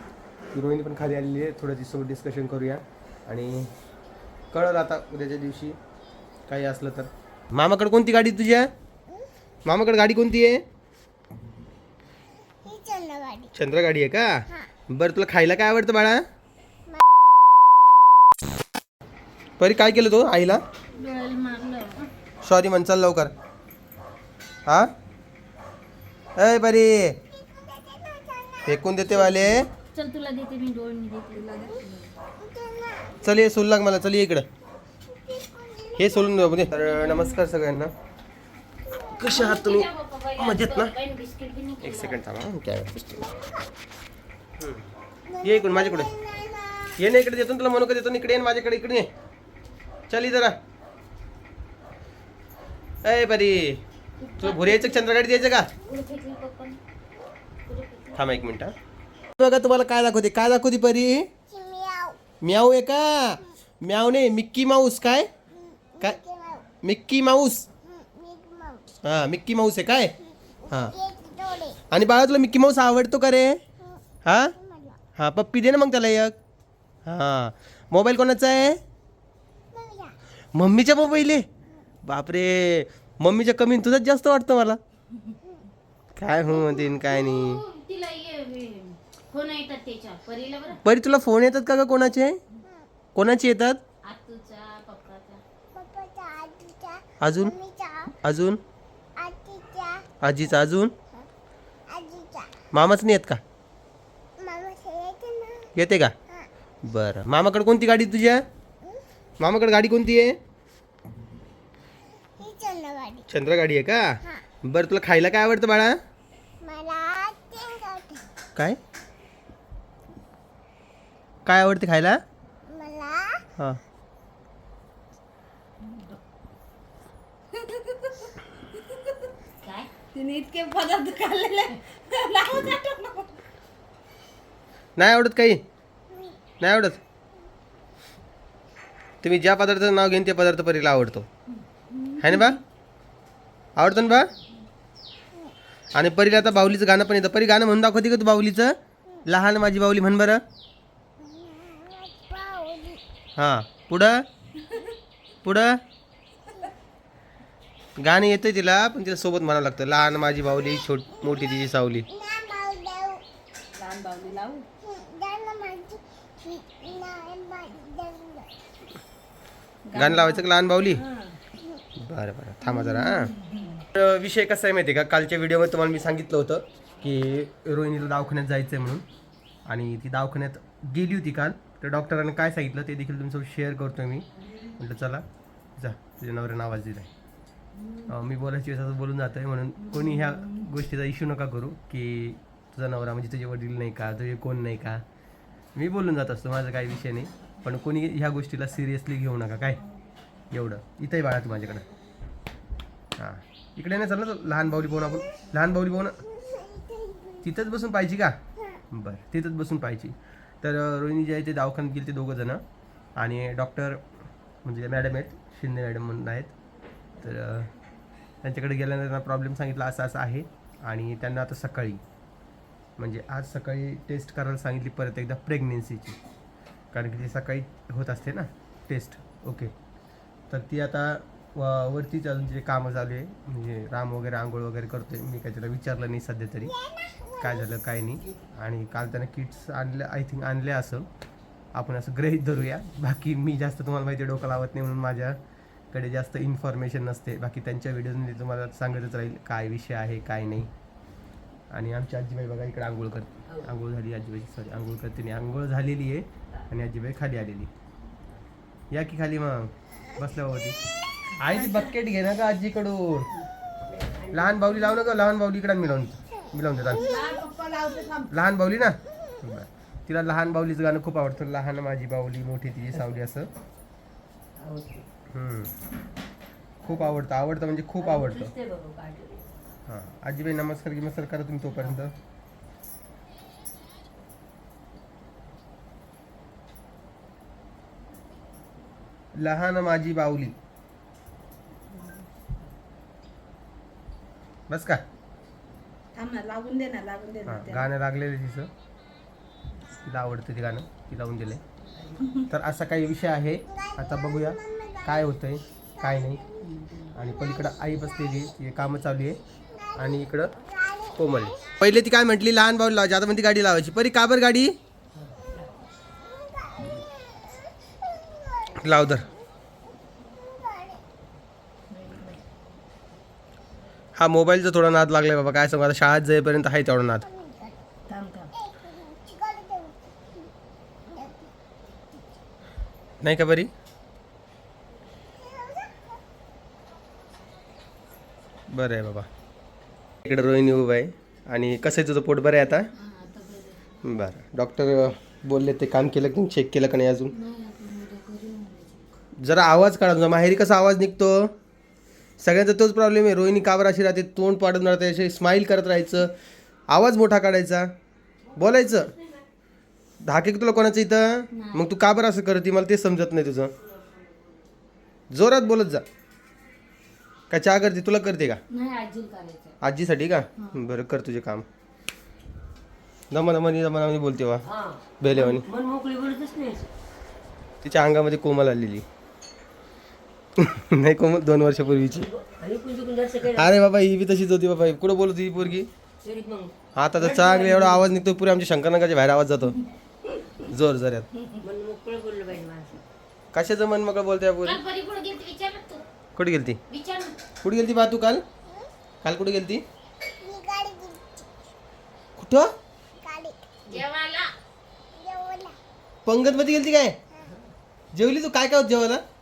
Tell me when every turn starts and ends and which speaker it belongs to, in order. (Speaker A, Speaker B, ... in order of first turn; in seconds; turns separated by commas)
Speaker A: 0.5-3.7, Speaker A: 4.5-5.8, Speaker A: 6.5-8.7, Speaker A: 9.7-10.6, Speaker B: 12.6-13.5, Speaker A: 13.5-16.2, Speaker A: 19.6-20.6, Speaker C: 20.9-22.1, Speaker A: 22.4-23.3, Speaker A: 26.4-27.2, Speaker B: 27.4-28.8, Speaker A: 28.6-29.7, Speaker C: 29.3-31.5, Speaker D: 31.3-32.1, Speaker B: 32.4-33.1, Speaker A: 33.2-34.5, Speaker B: 35.1-36.8, Speaker A: 36.0-37.9, Speaker A: 39.0-40.9, Speaker C: 39.2-42.2, Speaker A: 41.8-43.3, Speaker A: 44.6-44.8, Speaker B: 45.3-46.9, Speaker A: 45.4-46.1, Speaker A: 47.0-49.1, Speaker A: 50.1-50.6, Speaker A: 53.0-53.8, Speaker C: 54.2-55.2, Speaker A: 54.4-55.7, Speaker C: 55.8-56.8, Speaker C: 57.7-58.4, Speaker A: 58.1-58.7, Speaker A: 59.4-61.3, Speaker B: 61.5-62.2, Speaker A: 62.4-65.3, Speaker B: 65.7-66.7, Speaker A: 66.8-67.7, Speaker B: 67.9-68.9, Speaker A: 69.0-70.1, Speaker B: 70.6-71.8, Speaker A: 70.7-71.0, Speaker A: 71.9-73.6, Speaker A: 74.2-74.5, Speaker B: 74.6-75.0, Speaker A: 75.2-76.3, Speaker A: 77.0-78.8, Speaker B: 79.7-80.1, Speaker A: 80.5-81.5, Speaker A: 82.0-84.8, Speaker A: 86.2-87.6, Speaker C: 87.1-90.8, Speaker A: 90.8-92.4, Speaker A: 93.1-93.8, Speaker C: 94.0-95.4, Speaker B: 95.7-98.1, Speaker A: 97.2-97.5, Speaker A: 98.1-98.6, Speaker B: 99.2-100.1, Speaker A: 100.2-100.9, Speaker B: 101.9-102.7, Speaker A: 102.7-103.4, Speaker B: 104.4-105.7, Speaker A: 105.7-106.1, Speaker A: 106.8-108.4, Speaker A: 109.4-110.4, Speaker B: 112.4-113.2, Speaker A: 113.3-116.0, Speaker B: 116.6-118.2, Speaker A: 121.4-122.2, Speaker B: 122.7-123.4, Speaker D: 127.5-129.0, Speaker C: 129.6-129.9, Speaker D: 130.1-133.4, Speaker A: 135.0-135.6, Speaker A: 136.6-137.0, Speaker A: 139.2-141.3, Speaker A: 142.2-142.6, Speaker A: 143.8-144.3, Speaker A: 145.9-148.7, Speaker A: 149.2-150.4, Speaker B: 151.2-153.0, Speaker A: 153.4-154.2, Speaker A: 155.4-155.8, Speaker A: 158.0-162.1, Speaker B: 162.1-163.2, Speaker D: 163.8-164.7, Speaker B: 164.8-168.5, Speaker D: 169.9-171.4, Speaker A: 169.9-171.0, Speaker A: 171.9-173.3, Speaker D: 172.7-173.8, Speaker A: 173.9-179.0, Speaker A: 179.7-185.2, Speaker A: 185.8-187.1, Speaker A: 188.0-195.0, Speaker A: 195.7-199.8, Speaker A: 200.5-201.8, Speaker A: 203.2-206.2, Speaker B: 206.5-207.4, Speaker A: 207.4-208.4, Speaker A: 208.9-212.6, Speaker A: 213.2-214.0, Speaker A: 214.6-216.5, Speaker A: 217.2-217.7, Speaker A: 218.4-222.0, Speaker A: 223.0-226.2, Speaker A: 226.9-229.7, Speaker A: 230.5-236.7, Speaker B: 236.8-237.4, Speaker A: 237.4-241.1, Speaker A: 241.7-245.4, Speaker A: 245.9-250.7, Speaker A: 251.7-257.7, Speaker A: 258.9-260.8, Speaker A: 261.3-263.3, Speaker E: 263.9-265.0, Speaker A: 264.3-267.1, Speaker D: 266.9-268.3, Speaker A: 268.3-273.5, Speaker E: 274.6-275.1, Speaker A: 275.3-275.7, Speaker E: 276.8-277.2, Speaker A: 276.8-278.5, Speaker E: 278.0-279.7, Speaker A: 279.9-282.1, Speaker A: 289.3-290.5, Speaker A: 294.7-295.0, Speaker D: 296.1-297.9, Speaker A: 297.4-298.7, Speaker A: 299.9-301.6, Speaker E: 301.9-302.4, Speaker A: 302.4-306.4, Speaker B: 304.6-305.1, Speaker B: 306.3-306.7, Speaker C: 306.8-307.1, Speaker A: 307.1-309.4, Speaker B: 309.8-310.0, Speaker A: 309.9-310.5, Speaker B: 310.6-311.7, Speaker A: 311.1-314.8, Speaker E: 315.1-315.7, Speaker B: 316.4-317.6, Speaker B: 318.1-318.7, Speaker A: 318.7-319.3, Speaker B: 320.4-321.0, Speaker D: 321.9-322.4, Speaker A: 324.1-327.3, Speaker B: 327.4-327.7, Speaker D: 328.1-328.5, Speaker B: 328.6-330.0, Speaker A: 333.2-333.7, Speaker B: 335.4-336.0, Speaker A: 338.7-339.3, Speaker A: 340.2-342.9, Speaker C: 342.9-343.8, Speaker A: 344.0-347.3, Speaker C: 347.3-349.1, Speaker A: 349.4-351.5, Speaker A: 352.4-356.3, Speaker A: 356.9-357.9, Speaker A: 358.5-359.1, Speaker A: 360.2-363.7, Speaker C: 361.6-361.8, Speaker A: 365.3-366.0, Speaker A: 367.5-368.6, Speaker C: 368.7-369.4, Speaker D: 368.8-369.7, Speaker A: 369.8-371.6, Speaker A: 373.3-374.6, Speaker E: 374.6-376.9, Speaker A: 375.2-375.6, Speaker A: 377.8-379.0, Speaker A: 380.6-382.3, Speaker E: 382.1-383.8, Speaker A: 383.5-385.9, Speaker E: 386.2-388.1, Speaker A: 386.9-389.8, Speaker A: 390.7-391.3, Speaker E: 391.6-393.0, Speaker A: 393.5-394.8, Speaker C: 394.6-396.0, Speaker A: 396.4-396.8, Speaker C: 396.9-397.4, Speaker A: 397.6-398.4, Speaker A: 399.2-399.8, Speaker B: 400.4-401.5, Speaker A: 402.4-402.7, Speaker B: 403.2-403.6, Speaker C: 403.9-404.5, Speaker B: 405.1-405.8, Speaker A: 406.2-407.2, Speaker A: 408.1-409.2